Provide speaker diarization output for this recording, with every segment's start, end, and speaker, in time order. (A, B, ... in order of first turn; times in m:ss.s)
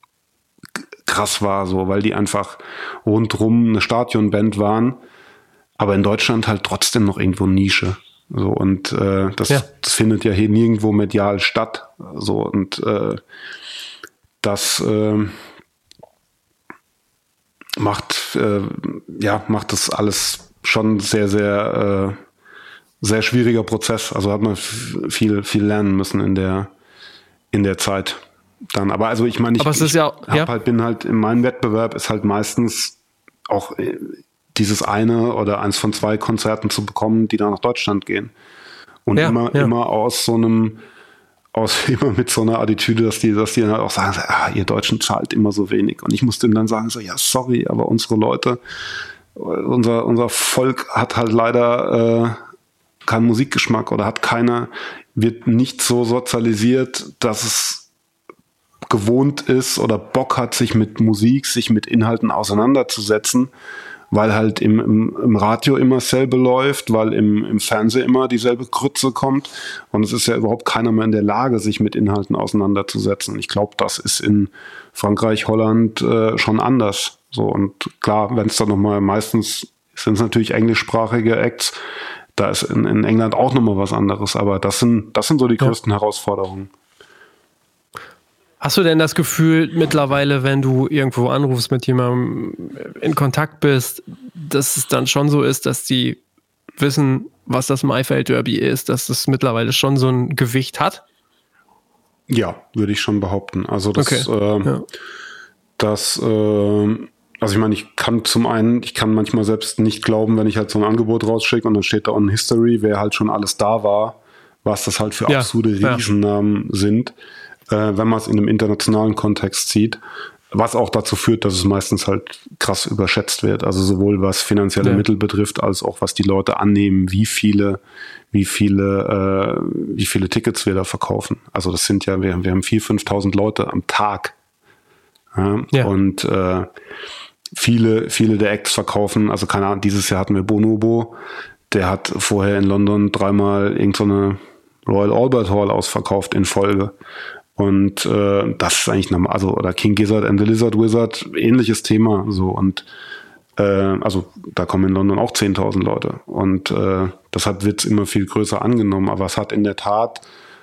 0:01.0-0:05.0 A
0:05.8-0:13.2 A
0:14.4-0:15.4 A
0:17.8-0:22.2 A
0:23.0-0:26.7 A
0:27.5-0:33.0 A
0:29.6-0:30.5 B
0:33.5-0:38.3 A
0:39.1-0:40.8 A
0:39.2-0:39.7 B
0:41.5-0:48.6 A
0:49.4-0:52.4 A
0:53.0-0:57.9 A
0:58.9-1:03.5 A
1:04.1-1:21.8 A
1:22.4-1:26.7 A
1:28.6-1:36.2 B
1:36.8-1:41.0 B
1:42.3-1:44.8 A
1:44.0-1:44.9 B
1:45.8-1:57.2 A
1:55.3-1:56.0 B
1:57.7-2:00.0 A
2:00.5-2:07.8 A
2:08.3-2:14.4 A
2:15.3-2:16.7 A
2:17.5-2:27.0 A
2:27.6-2:32.9 A
2:33.6-2:40.3 A